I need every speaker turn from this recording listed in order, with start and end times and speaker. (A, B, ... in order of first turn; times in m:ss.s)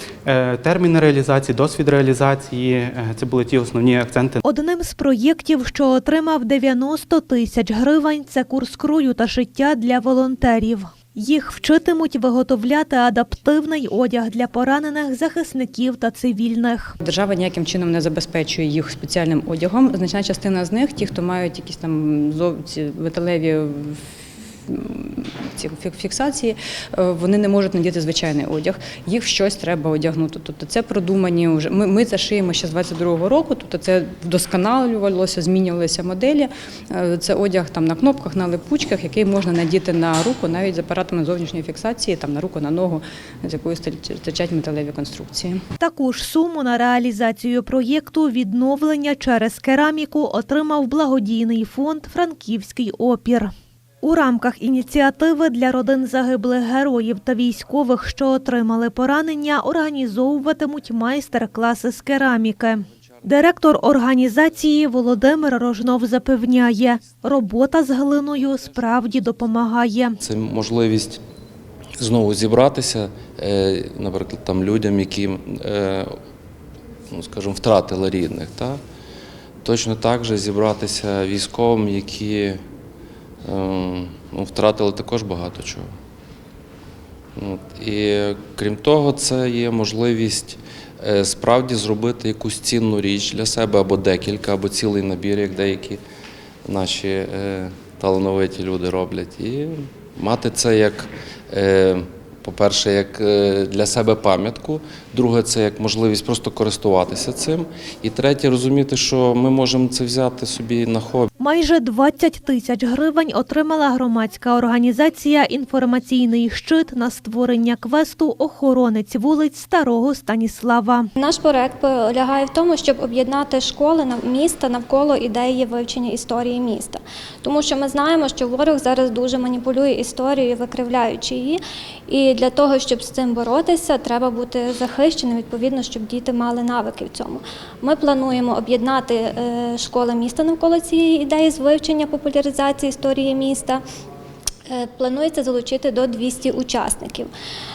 0:00.2-0:04.4 A
0:04.4-0:17.0 B
0:17.0-0:24.1 C
0:24.6-0:45.6 C
0:45.8-1:10.2 B
1:10.2-1:11.2 D
1:12.0-1:16.1 D
1:17.1-1:18.8 D
1:19.6-1:22.6 D
1:23.4-1:25.9 D
1:27.4-1:36.0 D
1:36.6-1:51.3 D
1:51.4-2:01.1 B
2:01.2-2:23.8 E
2:24.7-2:27.3 E